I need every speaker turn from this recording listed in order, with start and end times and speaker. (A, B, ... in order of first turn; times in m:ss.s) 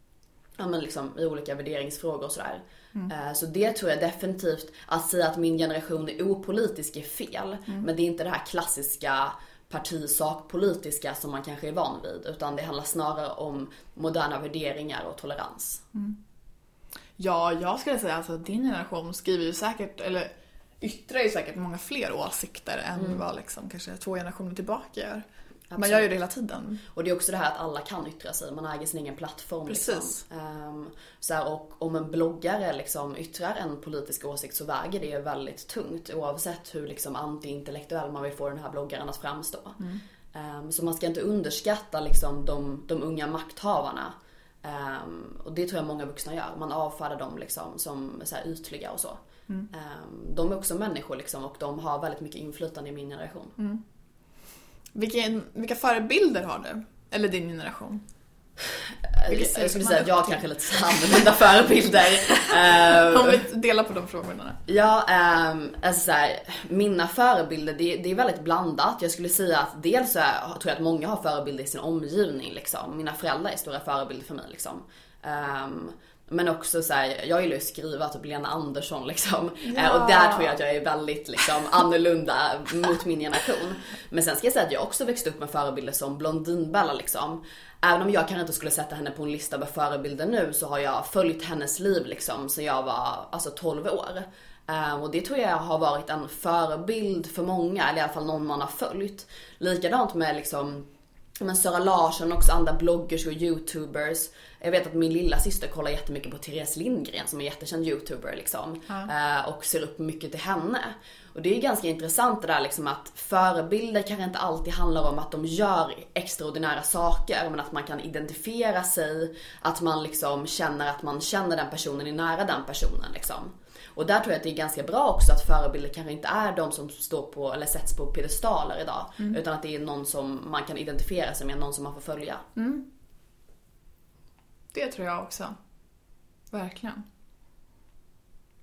0:00.6-0:15.8 A
0:17.2-0:20.3 B
0:20.8-0:25.2 B
0:25.7-0:26.1 A
0:25.8-0:26.8 B
0:26.9-0:39.8 A
0:29.7-0:30.2 B
0:40.3-0:53.5 A
0:54.9-0:58.0 B
0:58.8-1:03.4 A
0:59.3-1:00.3 B
1:02.4-1:04.6 B
1:04.6-2:12.4 A
1:19.6-1:20.6 B
2:12.6-2:12.8 B
2:14.7-2:15.6 B
2:16.5-2:17.0 B